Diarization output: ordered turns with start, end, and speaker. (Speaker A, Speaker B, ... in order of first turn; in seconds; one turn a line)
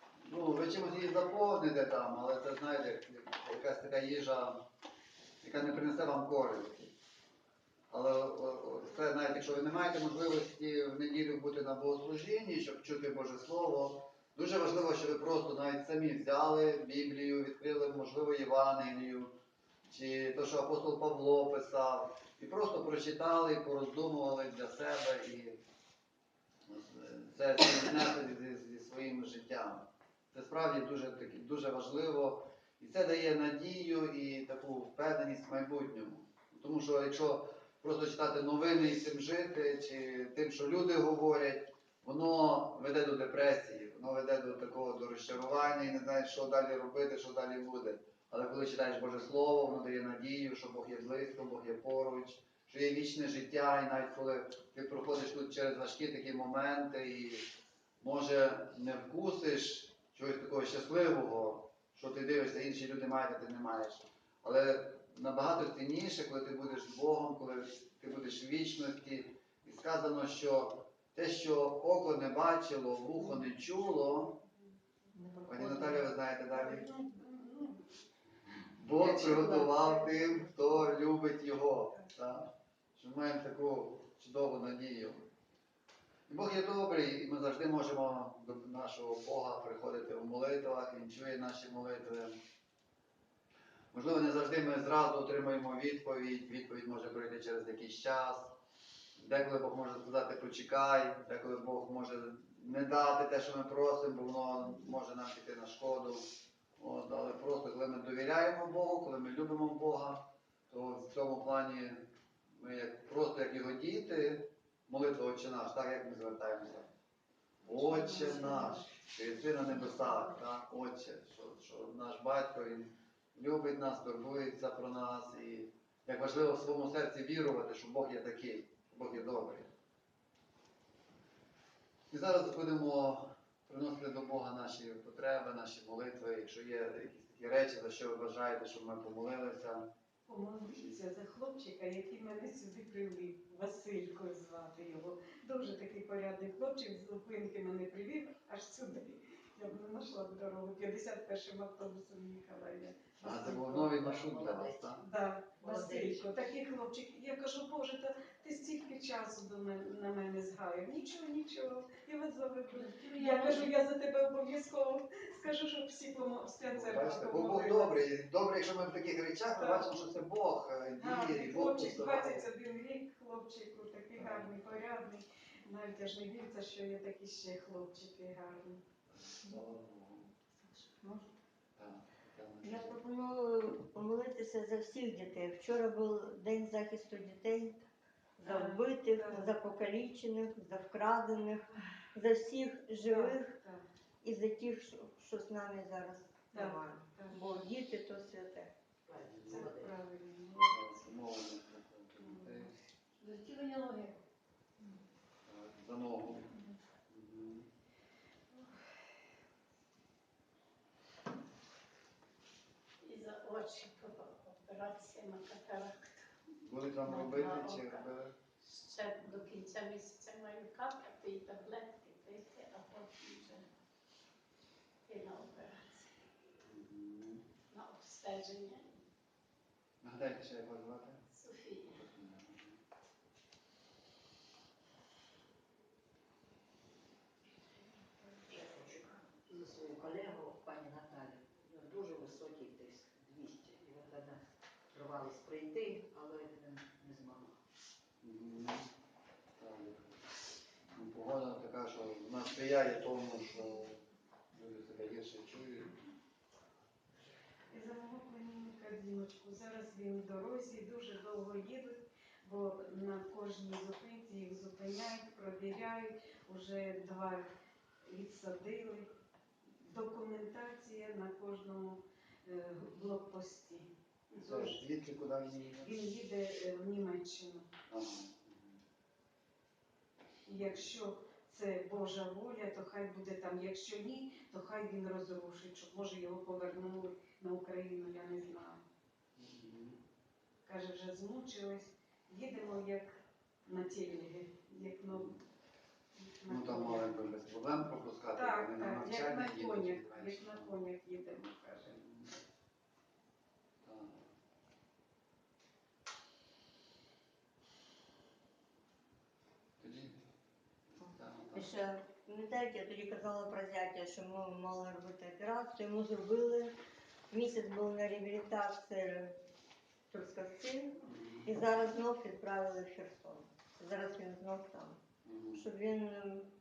Speaker A: 0.2-4.6
Speaker A: 5.4-6.9
Speaker A: 7.9-19.3
Speaker A: 19.9-25.6
Speaker A: 26.6-57.5
Speaker A: 58.0-74.4
Speaker B: 75.2-75.9
Speaker A: 75.5-76.9
Speaker B: 76.5-77.8
Speaker A: 78.8-85.2
Speaker B: 79.0-80.7
Speaker A: 86.3-92.4
Speaker A: 93.9-98.5
Speaker A: 99.2-106.2
Speaker A: 106.8-116.9
Speaker A: 117.6-129.7
Speaker B: 117.8-118.7
Speaker A: 132.1-139.9
Speaker B: 140.3-153.9
Speaker A: 140.7-141.0
Speaker A: 153.2-155.0
Speaker C: 153.6-155.0
Speaker B: 155.0-168.0
Speaker C: 155.6-156.3
Speaker D: 162.9-163.5
Speaker A: 166.7-172.4
Speaker B: 169.5-170.0
Speaker B: 171.0-178.8
Speaker A: 174.2-174.8
Speaker A: 179.1-180.3
Speaker E: 181.0-181.2
Speaker A: 181.8-183.0
Speaker E: 182.6-187.8
Speaker E: 188.4-193.6
Speaker B: 188.4-189.5
Speaker B: 193.0-193.8
Speaker E: 194.2-198.7
Speaker B: 196.5-197.6
Speaker C: 199.1-199.9
Speaker A: 199.3-199.7
Speaker B: 199.4-201.0
Speaker A: 200.6-202.7
Speaker B: 202.2-202.7
Speaker D: 203.2-204.2
Speaker A: 205.4-207.7
Speaker D: 213.0-216.3
Speaker A: 216.6-218.3
Speaker D: 217.0-218.1
Speaker D: 218.6-223.7
Speaker D: 225.1-226.1
Speaker A: 226.6-227.4
Speaker D: 227.7-229.0
Speaker A: 230.0-231.2
Speaker D: 231.3-232.0
Speaker A: 231.9-232.7
Speaker C: 238.5-244.4
Speaker C: 244.9-247.5
Speaker A: 248.2-248.9
Speaker A: 249.6-250.1
Speaker A: 250.9-254.0
Speaker A: 254.5-255.9
Speaker B: 257.7-267.5
Speaker B: 268.0-269.1
Speaker B: 269.8-274.8
Speaker A: 274.4-275.9
Speaker B: 275.8-277.7
Speaker A: 277.9-278.8
Speaker B: 280.4-288.8
Speaker A: 289.4-290.0
Speaker B: 290.6-295.3
Speaker A: 295.1-295.4
Speaker B: 296.1-297.2
Speaker A: 296.5-300.7
Speaker B: 298.3-302.0
Speaker A: 301.9-302.4
Speaker A: 303.8-304.2
Speaker A: 309.8-310.1
Speaker A: 310.9-311.7
Speaker E: 311.5-316.7
Speaker E: 317.3-319.3
Speaker E: 320.1-325.0
Speaker A: 321.1-321.5
Speaker A: 325.2-325.6
Speaker E: 325.5-326.5